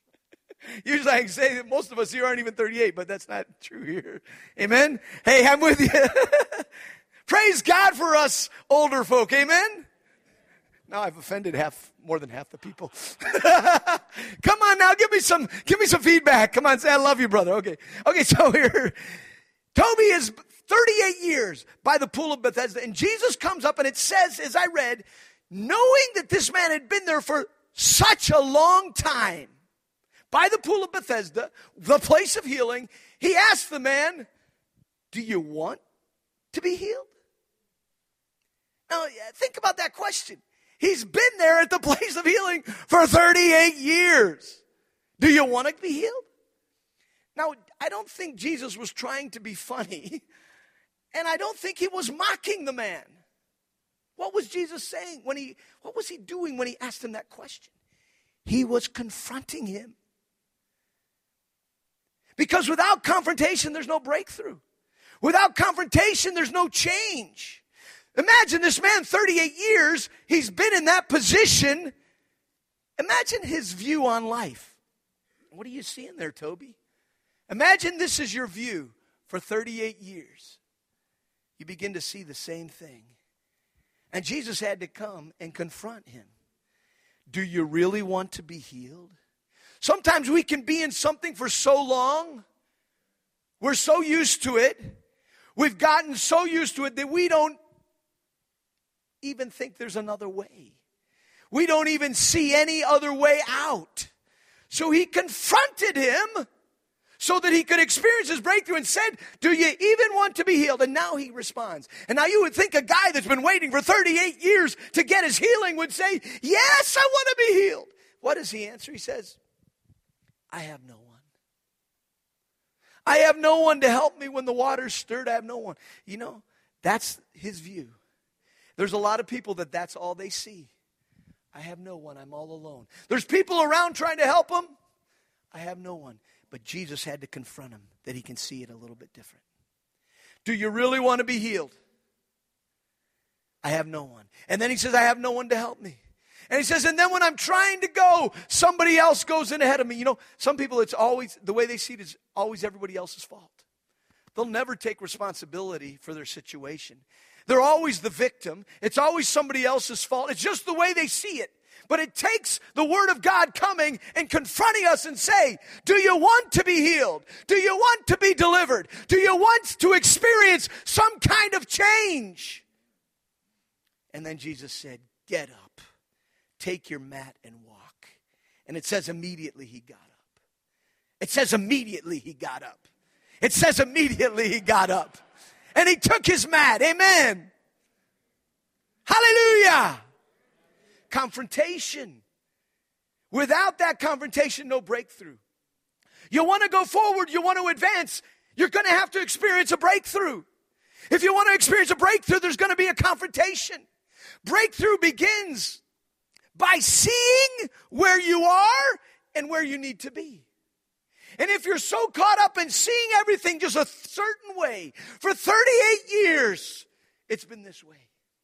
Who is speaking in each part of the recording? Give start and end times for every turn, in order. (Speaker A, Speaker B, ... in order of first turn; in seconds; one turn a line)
Speaker A: 0.7-6.7
Speaker A: 7.3-9.9
Speaker A: 10.9-18.9
Speaker A: 19.7-29.5
Speaker A: 30.3-34.3
Speaker A: 35.1-35.8
Speaker A: 36.5-37.1
Speaker A: 38.9-44.6
Speaker A: 45.2-46.2
Speaker A: 47.3-50.2
Speaker A: 51.1-53.2
Speaker A: 54.2-57.7
Speaker A: 58.4-60.0
Speaker A: 62.4-64.6
Speaker A: 65.2-67.6
Speaker A: 68.1-71.9
Speaker A: 73.0-74.8
Speaker A: 75.5-76.8
Speaker A: 77.5-80.6
Speaker A: 81.6-83.1
Speaker A: 84.1-86.3
Speaker A: 87.3-89.1
Speaker A: 89.8-92.4
Speaker A: 93.6-95.0
Speaker A: 95.5-97.6
Speaker A: 99.2-100.7
Speaker A: 101.5-104.1
Speaker A: 104.7-106.5
Speaker A: 107.2-119.4
Speaker A: 120.5-121.2
Speaker A: 123.0-128.0
Speaker A: 128.8-130.7
Speaker A: 131.5-134.7
Speaker A: 135.5-139.4
Speaker A: 140.4-141.8
Speaker A: 143.6-153.6
Speaker A: 154.3-172.6
Speaker A: 174.1-175.8
Speaker A: 176.6-178.1
Speaker A: 178.7-180.3
Speaker A: 181.2-182.8
Speaker A: 183.4-185.2
Speaker A: 185.7-187.5
Speaker A: 189.1-190.0
Speaker A: 191.1-192.2
Speaker A: 193.3-195.4
Speaker A: 196.3-200.4
Speaker A: 201.1-203.8
Speaker A: 204.4-205.8
Speaker A: 206.5-210.4
Speaker A: 211.4-218.1